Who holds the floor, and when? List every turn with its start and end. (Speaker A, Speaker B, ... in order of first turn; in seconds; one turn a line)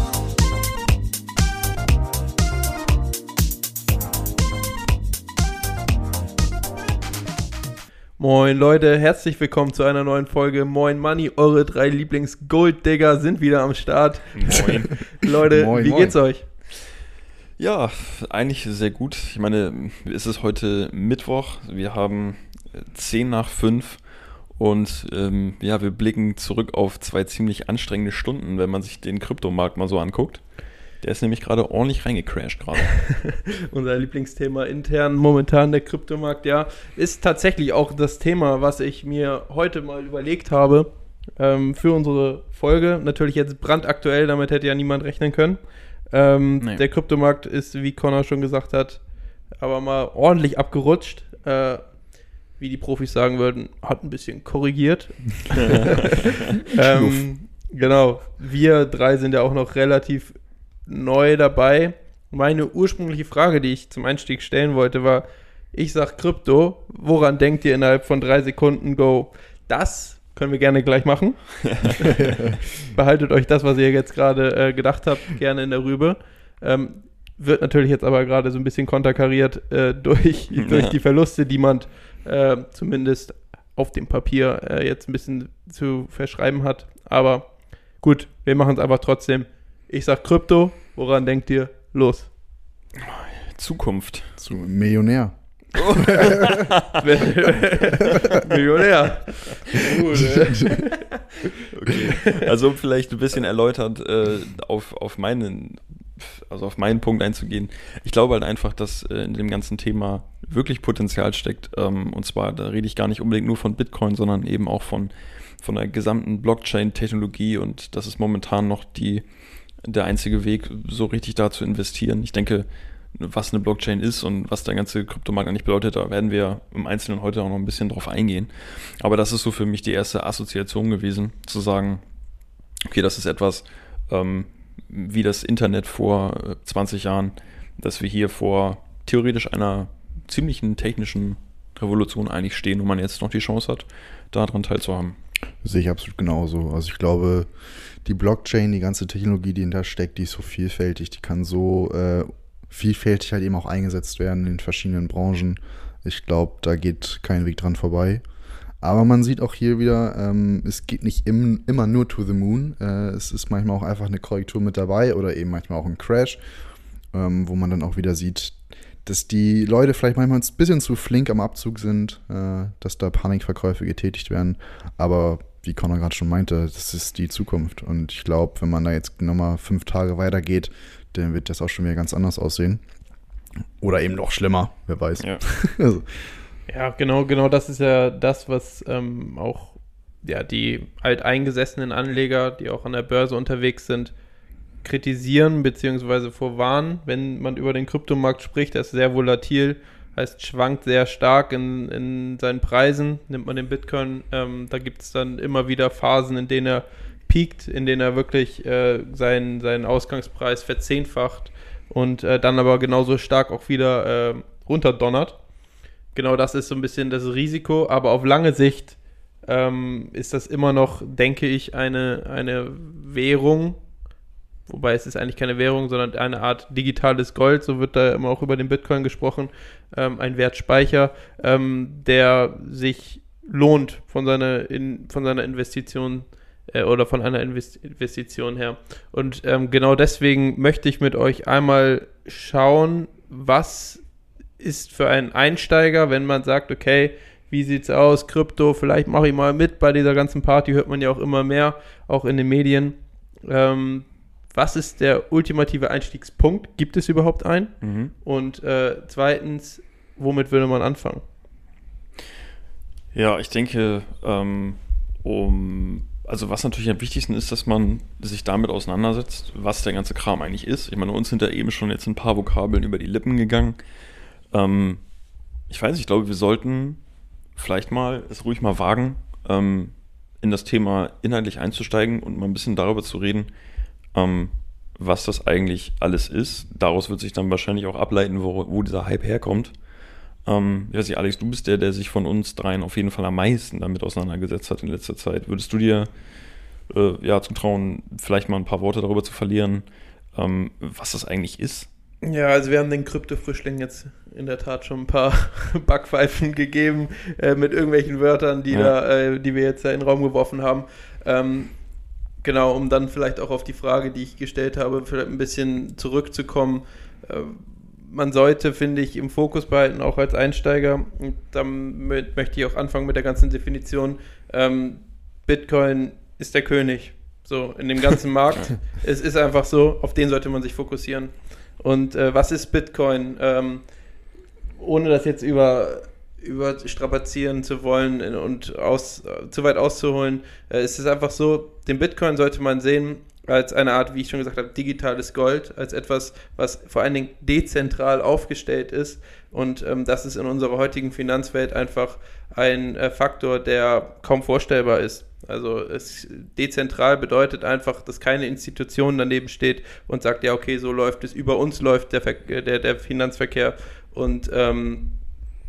Speaker A: 8.2-16.5
Speaker B: 14.3-15.0
Speaker C: 15.4-16.2
Speaker B: 17.6-24.0
Speaker B: 24.6-30.4
Speaker B: 31.0-33.0
Speaker A: 33.1-49.0
Speaker A: 49.6-51.8
Speaker A: 52.6-87.5
Speaker B: 55.6-56.4
Speaker B: 71.6-72.2
Speaker B: 80.5-81.0
Speaker A: 88.0-92.3
Speaker B: 93.0-94.3
Speaker C: 94.4-96.7
Speaker B: 95.8-97.0
Speaker A: 97.0-102.5
Speaker C: 100.2-100.9
Speaker B: 101.7-119.2
Speaker B: 119.8-132.0
Speaker B: 132.9-145.2
Speaker C: 145.6-147.5
Speaker C: 148.1-158.2
Speaker C: 158.8-166.4
Speaker C: 167.1-182.8
Speaker C: 183.8-186.2
Speaker A: 186.7-194.1
Speaker A: 194.8-215.4
Speaker A: 216.2-223.8
Speaker A: 224.7-244.0
Speaker A: 244.6-257.7
Speaker B: 257.8-258.1
Speaker A: 258.2-261.2
Speaker B: 263.1-273.8
Speaker B: 274.5-275.0
Speaker B: 275.7-277.0
Speaker B: 277.6-283.5
Speaker B: 284.1-289.7
Speaker B: 290.5-296.1
Speaker B: 296.9-301.9
Speaker A: 302.2-311.7
Speaker A: 312.4-333.9
Speaker A: 334.8-365.1